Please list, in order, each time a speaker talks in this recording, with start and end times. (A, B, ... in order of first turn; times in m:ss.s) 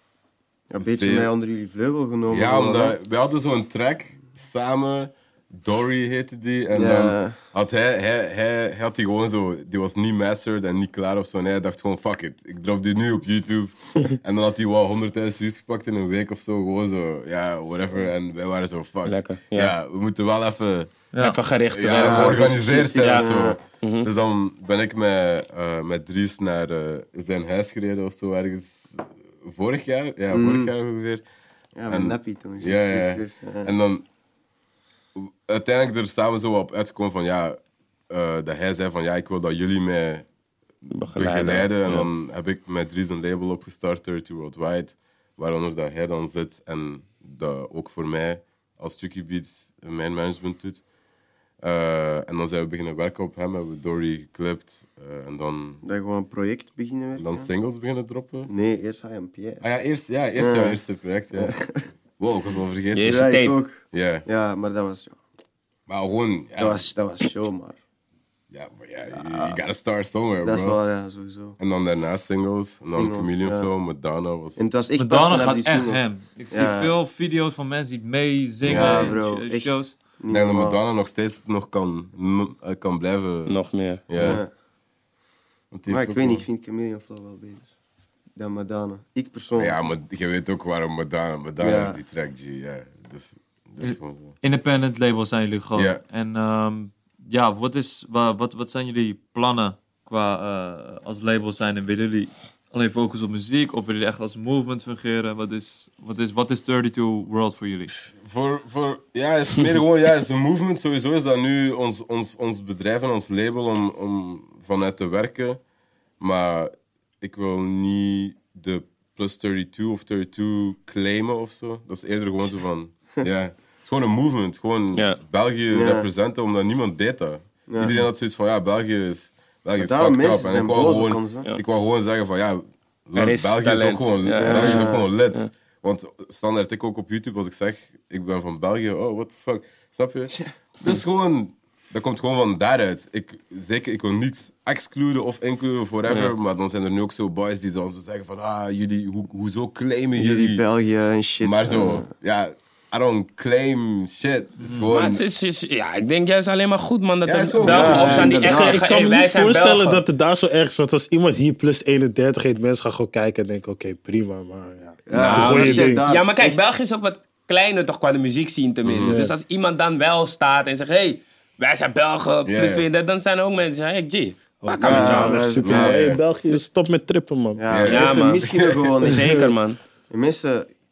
0:00.7-0:03.0 A
0:00.8-0:01.3 B
0:02.3-0:20.9 B
0:06.7-0:07.4 A
0:19.0-0:19.7 C
0:21.1-0:21.4 D
0:21.2-0:23.3 C
0:21.7-0:31.2 B
0:21.9-0:23.6 A
0:23.8-0:24.1 C
0:30.3-0:30.7 A
0:31.8-0:33.7 A
0:31.9-0:34.0 B
0:35.1-0:37.6 B
0:38.1-0:40.2 B
0:40.9-0:42.1 C
0:41.1-0:50.8 B
0:51.6-0:55.8 B
0:55.8-0:57.5 A
0:57.2-0:58.5 B
0:58.5-0:59.6 A
0:59.6-1:01.5 B
1:00.4-1:00.8 A
1:01.3-1:01.8 A
1:02.2-1:03.3 B
1:02.9-1:03.6 C
1:03.0-1:05.2 A
1:03.9-1:04.2 B
1:05.9-1:06.8 B
1:06.6-1:07.8 A
1:08.5-1:10.8 B
1:09.1-1:09.6 A
1:10.4-1:11.6 A
1:11.6-1:14.6 B
1:12.9-1:13.7 A
1:14.6-1:16.9 A
1:15.0-1:20.0 D
1:18.6-1:19.2 B
1:18.6-1:20.8 A
1:20.3-1:23.5 B
1:23.4-1:24.4 C
1:24.1-1:24.4 B
1:24.2-1:24.5 A
1:25.7-1:26.4 B
1:25.9-1:27.7 A
1:28.4-1:29.8 A
1:29.6-1:34.4 B
1:31.6-1:32.0 A
1:33.8-1:48.0 D
1:35.7-1:36.0 B
1:48.1-1:55.6 B
1:56.2-2:30.6 B
2:04.9-2:05.2 C
2:05.7-2:06.1 A
2:07.7-2:08.0 A
2:09.8-2:11.5 A
2:13.2-2:15.5 C
2:14.4-2:15.1 A
2:26.1-2:26.3 C
2:30.2-2:32.1 A
2:31.4-2:35.2 B
2:34.6-2:34.9 D
2:34.9-2:40.0 C
2:37.2-2:38.5 B
2:37.6-2:38.9 A
2:37.9-2:46.0 E
2:45.0-2:46.6 A
2:45.1-2:55.5 C
2:48.8-2:49.2 B
2:49.0-2:49.3 E
2:52.4-2:52.8 B
2:54.6-2:57.6 E
2:54.8-2:56.2 A
2:55.6-2:56.2 B
2:57.6-2:59.5 A
2:57.7-2:58.9 B
2:57.8-2:58.5 C
2:59.0-2:59.8 C
2:59.2-2:59.4 E
3:00.1-3:00.7 A